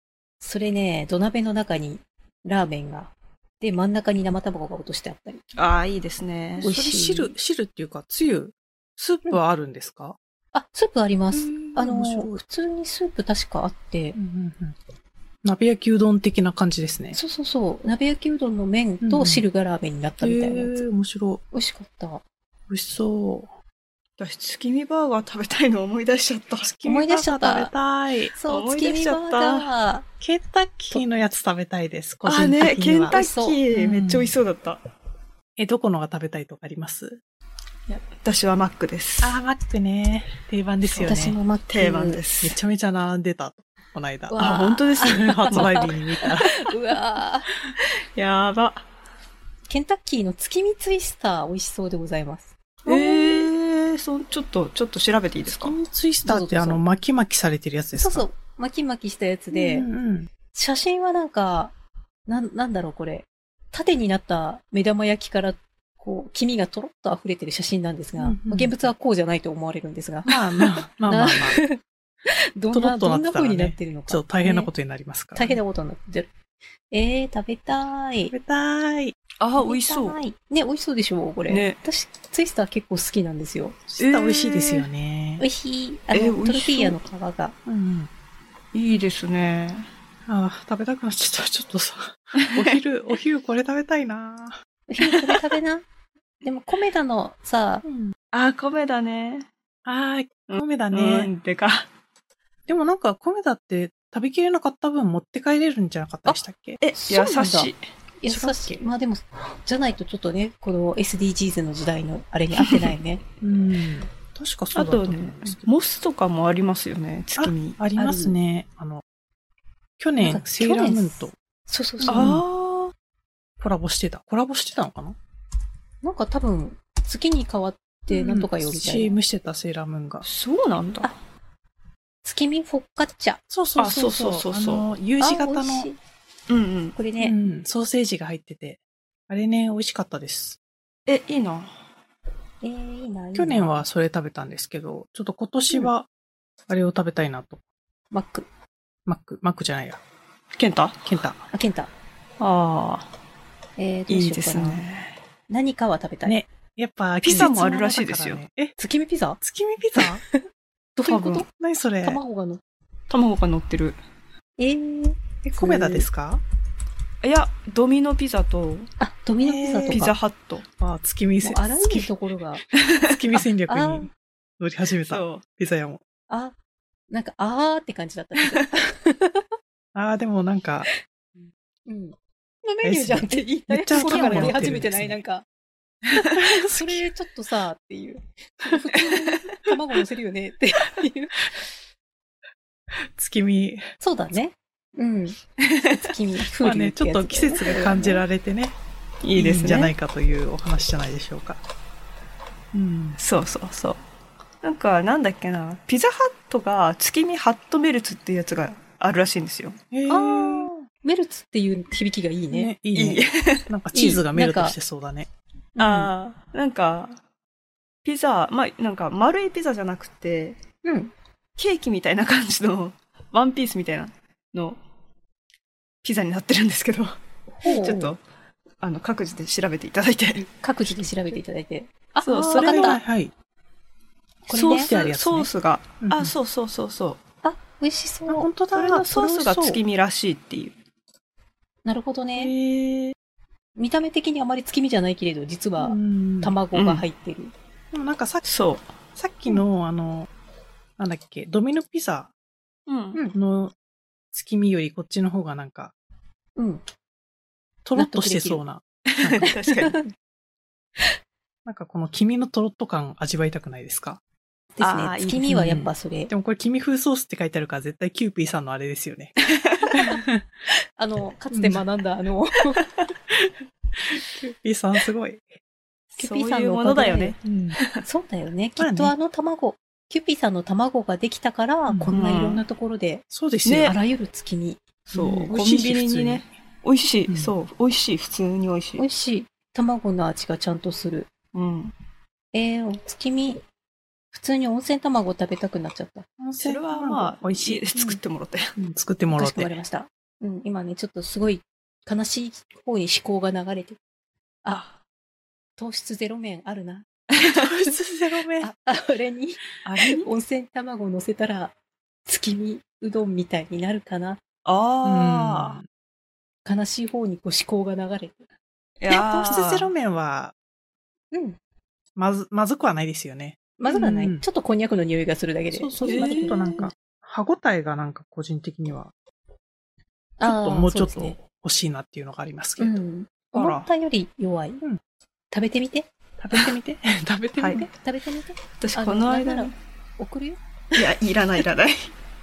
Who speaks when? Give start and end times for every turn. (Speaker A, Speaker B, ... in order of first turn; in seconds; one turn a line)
Speaker A: 0.4-5.4
Speaker B: 5.6-6.7
Speaker C: 6.6-10.2
Speaker A: 6.6-7.3
Speaker A: 10.5-14.2
Speaker C: 11.3-12.4
Speaker C: 14.2-14.8
Speaker C: 15.4-17.2
Speaker A: 17.1-20.8
Speaker C: 19.0-19.5
Speaker C: 20.2-21.4
Speaker A: 21.5-22.2
Speaker C: 22.7-23.5
Speaker B: 24.2-26.7
Speaker C: 26.6-28.3
Speaker A: 26.8-27.7
Speaker A: 28.3-30.1
Speaker B: 28.5-29.7
Speaker C: 30.2-33.2
Speaker B: 32.2-34.8
Speaker A: 33.1-33.6
Speaker C: 33.7-34.3
Speaker C: 35.6-37.2
Speaker B: 37.9-39.4
Speaker C: 39.2-41.4
Speaker B: 40.8-42.6
Speaker A: 41.0-42.2
Speaker C: 42.4-46.5
Speaker A: 44.3-47.5
Speaker B: 44.4-46.0
Speaker B: 47.8-48.9
Speaker A: 49.7-53.5
Speaker B: 52.9-55.8
Speaker C: 55.5-58.2
Speaker A: 56.2-56.8
Speaker A: 58.0-59.9
Speaker C: 59.5-60.3
Speaker A: 60.5-61.7
Speaker A: 62.3-74.7
Speaker C: 68.2-68.8
Speaker C: 70.3-71.6
Speaker C: 72.7-75.6
Speaker A: 75.3-76.3
Speaker A: 76.9-78.3
Speaker C: 78.3-79.2
Speaker B: 79.4-80.2
Speaker A: 79.6-83.8
Speaker B: 81.5-81.8
Speaker C: 83.9-85.5
Speaker B: 84.0-84.9
Speaker A: 85.4-87.6
Speaker B: 86.1-87.0
Speaker C: 87.7-88.1
Speaker B: 88.7-89.9
Speaker C: 90.3-94.6
Speaker B: 92.4-92.8
Speaker A: 94.9-95.8
Speaker B: 95.0-95.4
Speaker A: 96.4-97.9
Speaker C: 97.8-98.1
Speaker B: 98.3-99.5
Speaker C: 99.9-101.3
Speaker B: 100.5-101.9
Speaker C: 102.7-106.8
Speaker B: 106.8-107.8
Speaker A: 106.9-107.7
Speaker A: 108.2-113.2
Speaker C: 108.3-108.8
Speaker C: 113.4-115.7
Speaker B: 114.7-117.8
Speaker C: 117.4-119.0
Speaker A: 118.0-118.4
Speaker C: 120.0-121.3
Speaker A: 120.2-122.3
Speaker C: 122.0-122.4
Speaker B: 122.1-122.9
Speaker C: 123.6-125.2
Speaker A: 126.0-129.1
Speaker C: 128.1-130.2
Speaker B: 130.2-131.1
Speaker A: 132.2-133.4
Speaker C: 133.5-135.9
Speaker B: 133.8-134.9
Speaker A: 135.2-136.0
Speaker B: 136.5-137.0
Speaker A: 137.0-137.4
Speaker C: 137.2-140.6
Speaker B: 141.1-141.7
Speaker A: 142.6-143.8
Speaker C: 143.3-146.1
Speaker C: 146.7-147.6
Speaker A: 148.1-148.5
Speaker C: 149.1-150.0
Speaker B: 150.6-151.1
Speaker C: 151.1-151.4
Speaker A: 151.5-151.9
Speaker B: 152.4-153.1
Speaker A: 153.8-154.8
Speaker B: 154.1-155.1
Speaker A: 155.5-156.4
Speaker C: 156.2-158.7
Speaker B: 157.2-158.4
Speaker A: 158.8-159.4
Speaker C: 159.4-160.2
Speaker A: 160.0-160.4
Speaker A: 161.0-161.5
Speaker C: 161.1-162.2
Speaker A: 162.0-162.6
Speaker B: 163.1-164.0
Speaker A: 164.6-166.1
Speaker C: 165.4-166.4
Speaker B: 167.2-168.9
Speaker A: 169.0-170.1
Speaker C: 169.4-170.0
Speaker B: 169.9-170.7
Speaker C: 170.8-172.1
Speaker A: 171.4-172.6
Speaker B: 172.9-173.2
Speaker C: 173.0-176.0
Speaker A: 173.7-174.1
Speaker B: 175.0-175.4
Speaker A: 176.3-176.6
Speaker A: 177.1-179.5
Speaker C: 179.9-180.9
Speaker A: 181.9-185.5
Speaker C: 182.8-185.2
Speaker B: 184.0-184.8
Speaker C: 186.1-187.0
Speaker A: 186.6-191.6
Speaker B: 189.1-189.5
Speaker C: 192.9-193.8
Speaker A: 194.0-195.4
Speaker B: 195.6-196.1
Speaker A: 196.0-198.2
Speaker C: 196.6-198.8
Speaker B: 199.2-199.9
Speaker C: 199.3-201.6
Speaker C: 202.7-203.2
Speaker B: 203.2-204.0
Speaker B: 204.6-209.8
Speaker C: 209.9-210.9
Speaker A: 210.1-212.7
Speaker C: 212.5-215.3
Speaker B: 212.9-213.7
Speaker A: 213.9-214.8
Speaker A: 215.8-216.1
Speaker B: 215.8-217.2
Speaker B: 218.0-220.6
Speaker A: 220.8-221.1
Speaker B: 221.6-224.8
Speaker B: 226.0-228.2
Speaker A: 227.6-228.1
Speaker B: 228.8-230.5
Speaker A: 230.5-233.0
Speaker B: 232.2-233.0
Speaker C: 232.6-233.3
Speaker A: 234.5-234.9
Speaker B: 234.5-237.2
Speaker C: 234.7-235.5
Speaker C: 236.0-236.3
Speaker A: 237.4-238.5
Speaker C: 238.3-239.8
Speaker B: 238.7-240.8
Speaker A: 241.8-242.5
Speaker C: 242.4-243.2
Speaker A: 243.8-247.5
Speaker C: 245.8-246.6
Speaker B: 246.7-247.0
Speaker C: 247.9-248.5
Speaker B: 248.4-248.9
Speaker C: 249.1-250.3
Speaker C: 251.0-252.3
Speaker B: 252.9-253.2
Speaker C: 253.3-253.8
Speaker C: 254.3-255.9
Speaker A: 256.6-256.8
Speaker C: 257.9-259.5
Speaker A: 258.0-258.6
Speaker B: 259.2-260.0
Speaker A: 259.4-260.1
Speaker C: 261.6-264.2
Speaker A: 264.8-266.3
Speaker B: 264.8-265.6
Speaker C: 265.5-269.3
Speaker B: 269.4-269.9
Speaker C: 269.9-270.5
Speaker A: 269.9-270.2
Speaker A: 270.7-273.0
Speaker C: 271.5-271.8
Speaker C: 274.1-275.5
Speaker A: 276.2-277.4
Speaker B: 276.2-278.0
Speaker C: 277.4-277.8
Speaker A: 278.0-283.2
Speaker C: 278.8-279.1
Speaker C: 281.9-282.1
Speaker B: 282.1-282.6
Speaker C: 283.3-283.9
Speaker B: 283.6-284.0
Speaker A: 283.8-284.8
Speaker B: 285.1-289.0
Speaker C: 285.1-286.4
Speaker C: 287.3-287.5
Speaker A: 289.0-291.3
Speaker B: 291.5-291.9
Speaker A: 292.5-293.6
Speaker A: 294.3-296.3
Speaker C: 296.4-297.9
Speaker B: 296.6-298.7
Speaker C: 298.8-299.8
Speaker A: 299.3-304.0
Speaker A: 305.8-307.1
Speaker C: 307.4-308.7
Speaker A: 308.6-311.8
Speaker B: 309.9-310.3
Speaker A: 312.2-314.4
Speaker B: 314.6-315.8
Speaker C: 315.0-315.9
Speaker A: 316.6-318.5
Speaker B: 319.0-319.9
Speaker C: 319.1-320.5
Speaker A: 321.3-321.6
Speaker C: 322.2-324.4
Speaker A: 323.8-326.9
Speaker C: 325.7-329.1
Speaker B: 326.1-326.9
Speaker A: 330.4-331.4
Speaker C: 330.4-333.0
Speaker A: 332.8-334.8
Speaker C: 333.5-333.9
Speaker A: 335.5-336.1
Speaker C: 336.4-337.9
Speaker B: 337.6-337.9
Speaker A: 337.7-341.0
Speaker B: 338.8-339.7
Speaker B: 341.0-342.1